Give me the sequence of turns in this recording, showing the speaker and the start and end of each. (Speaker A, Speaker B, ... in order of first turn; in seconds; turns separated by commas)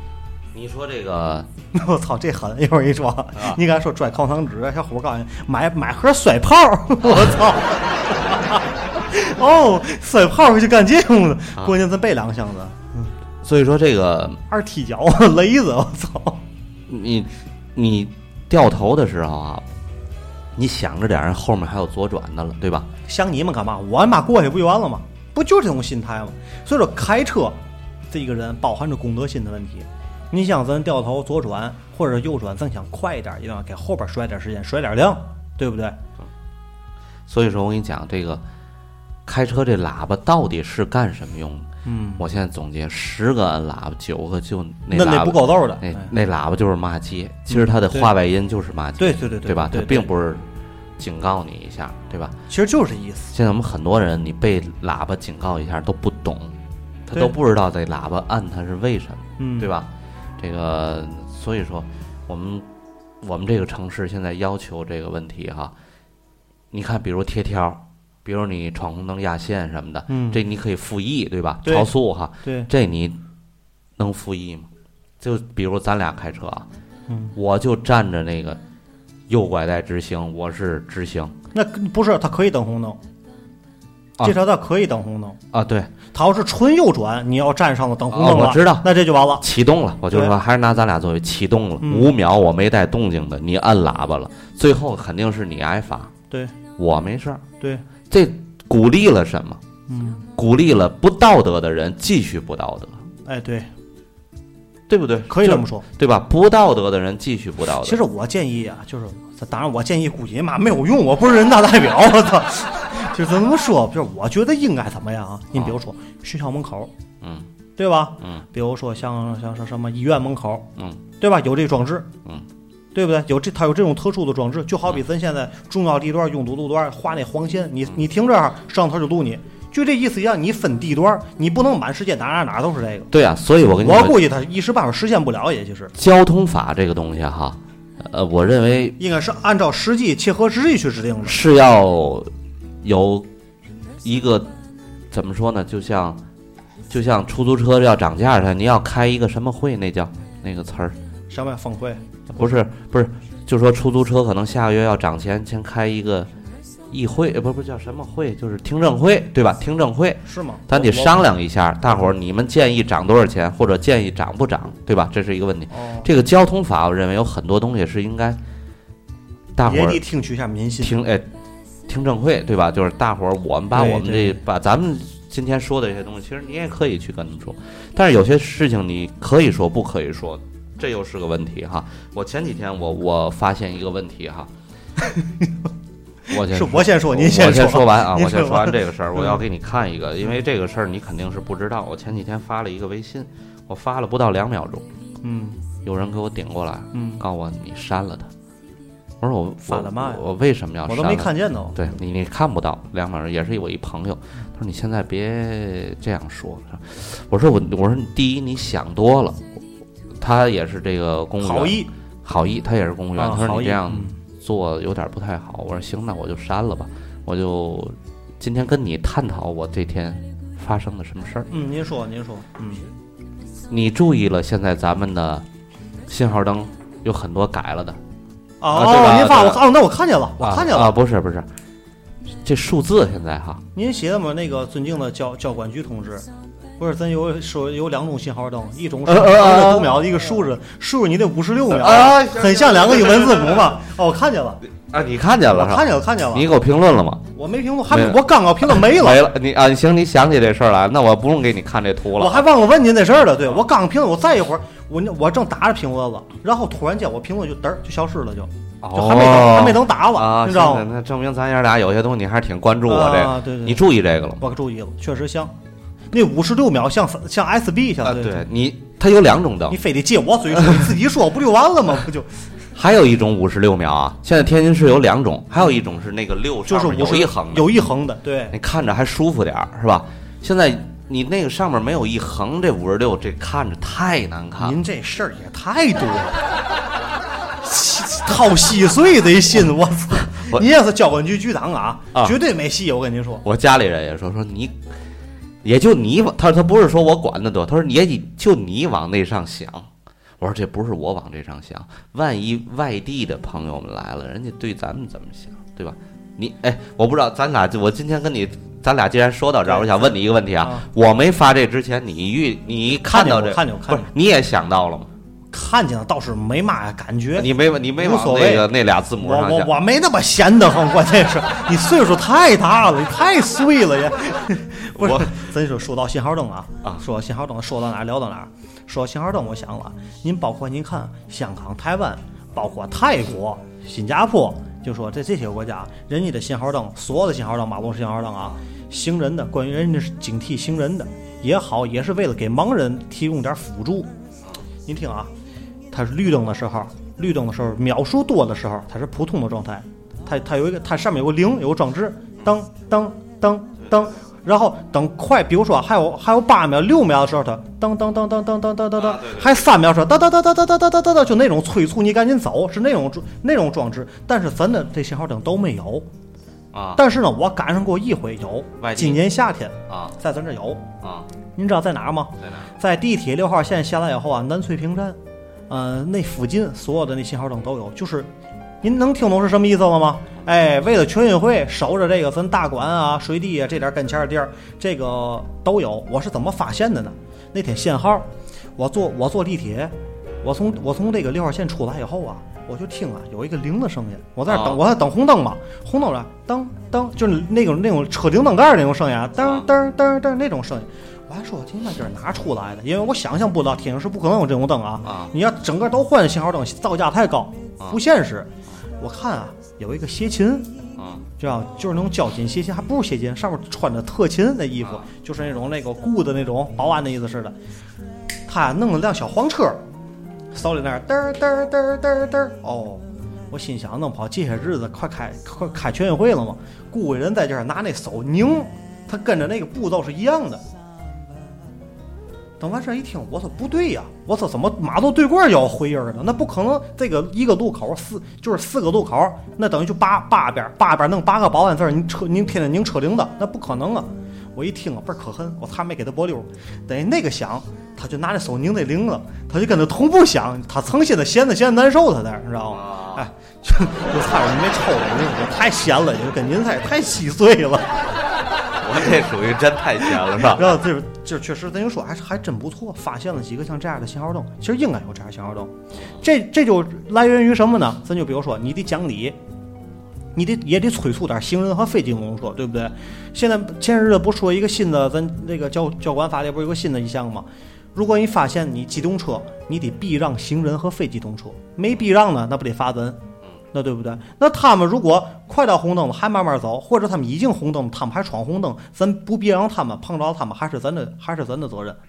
Speaker A: 0.5-1.5, Speaker B: 1.7-13.1, Speaker A: 7.0-7.4, Speaker A: 13.4-14.4, Speaker B: 14.5-16.4, Speaker A: 16.9-19.7, Speaker A: 20.6-22.9, Speaker B: 23.1-27.6, Speaker B: 28.1-36.0, Speaker A: 37.3-38.4, Speaker A: 39.3-50.5, Speaker B: 41.9-42.2, Speaker B: 44.9-46.1, Speaker B: 47.5-48.1, Speaker B: 49.0-50.1, Speaker A: 51.0-52.4, Speaker B: 52.5-53.3, Speaker A: 53.3-62.7, Speaker B: 59.4-59.7, Speaker A: 63.2-65.8, Speaker A: 66.7-73.2, Speaker B: 70.1-70.4, Speaker B: 71.6-71.9, Speaker B: 72.4-72.7, Speaker A: 74.0-74.7, Speaker A: 75.2-76.7, Speaker B: 77.1-77.3, Speaker A: 77.3-78.6, Speaker A: 79.3-81.4, Speaker B: 81.5-83.0, Speaker B: 84.2-85.4, Speaker A: 85.5-85.9, Speaker B: 86.1-89.5, Speaker A: 88.1-96.1, Speaker B: 91.8-92.1, Speaker A: 96.8-97.4, Speaker A: 98.1-99.6, Speaker B: 99.9-100.2, Speaker A: 100.3-103.0, Speaker B: 103.2-103.7, Speaker A: 104.9-108.0, Speaker B: 105.3-105.9, Speaker B: 107.8-116.9, Speaker A: 117.2-117.5, Speaker B: 117.8-122.1, Speaker B: 122.9-133.1, Speaker A: 133.1-134.2, Speaker B: 133.8-135.9, Speaker A: 135.9-139.0, Speaker B: 139.0-141.4, Speaker A: 141.2-142.3, Speaker A: 142.8-143.3, Speaker A: 144.0-144.5, Speaker A: 145.1-146.2, Speaker A: 146.9-151.0, Speaker B: 151.3-152.5, Speaker A: 152.4-156.3, Speaker A: 156.9-168.4, Speaker B: 160.2-161.3, Speaker B: 165.7-166.1, Speaker A: 169.6-170.0, Speaker B: 169.6-170.9, Speaker A: 170.8-171.3, Speaker A: 171.9-184.5, Speaker B: 173.7-174.4, Speaker B: 185.0-185.5, Speaker B: 186.3-189.4, Speaker A: 186.3-194.9, Speaker B: 195.2-195.6, Speaker A: 195.8-198.3, Speaker B: 196.9-197.2, Speaker A: 199.2-209.6, Speaker B: 199.7-200.2, Speaker B: 200.9-201.9, Speaker A: 210.2-221.5, Speaker B: 211.4-211.9, Speaker B: 213.2-214.2, Speaker B: 221.5-222.9, Speaker A: 223.7-225.5, Speaker A: 226.1-228.0, Speaker B: 228.6-231.0, Speaker A: 228.7-229.6, Speaker A: 230.4-231.5, Speaker A: 232.4-233.6, Speaker B: 233.8-236.3, Speaker B: 236.8-244.6, Speaker A: 239.1-240.1, Speaker A: 241.7-243.8, Speaker A: 244.8-247.3, Speaker B: 245.5-246.5, Speaker B: 247.3-249.3, Speaker A: 247.9-252.5, Speaker B: 252.2-260.9, Speaker A: 258.8-264.4, Speaker B: 262.9-263.8, Speaker B: 264.4-265.5, Speaker B: 266.1-268.4, Speaker A: 268.0-269.8, Speaker B: 269.7-272.4, Speaker A: 270.7-270.9, Speaker A: 272.8-277.7, Speaker B: 276.7-278.6, Speaker A: 278.5-284.8, Speaker B: 284.6-286.4, Speaker B: 287.6-293.4, Speaker A: 290.3-290.6, Speaker A: 293.4-294.8, Speaker A: 295.6-299.9, Speaker A: 300.4-315.1, Speaker B: 309.7-310.9, Speaker B: 313.1-314.1, Speaker B: 315.5-318.7, Speaker A: 317.4-319.7, Speaker B: 319.2-344.1, Speaker A: 324.9-325.4, Speaker B: 344.9-345.3, Speaker B: 345.9-366.1, Speaker A: 359.0-359.6, Speaker A: 366.7-367.0, Speaker B: 367.0-370.9, Speaker A: 368.8-369.3, Speaker A: 369.9-370.2, Speaker A: 371.0-371.3, Speaker B: 371.6-378.3, Speaker A: 372.4-372.7, Speaker B: 378.8-410.7, Speaker A: 394.5-394.8, Speaker A: 399.4-399.7, Speaker A: 405.0-405.3, Speaker A: 411.0-411.2, Speaker B: 411.4-417.6, Speaker B: 418.5-419.8, Speaker B: 420.5-430.6, Speaker B: 432.6-458.1, Speaker A: 452.7-453.3, Speaker A: 458.8-460.8, Speaker B: 460.3-469.4, Speaker B: 470.4-483.2, Speaker B: 483.7-492.0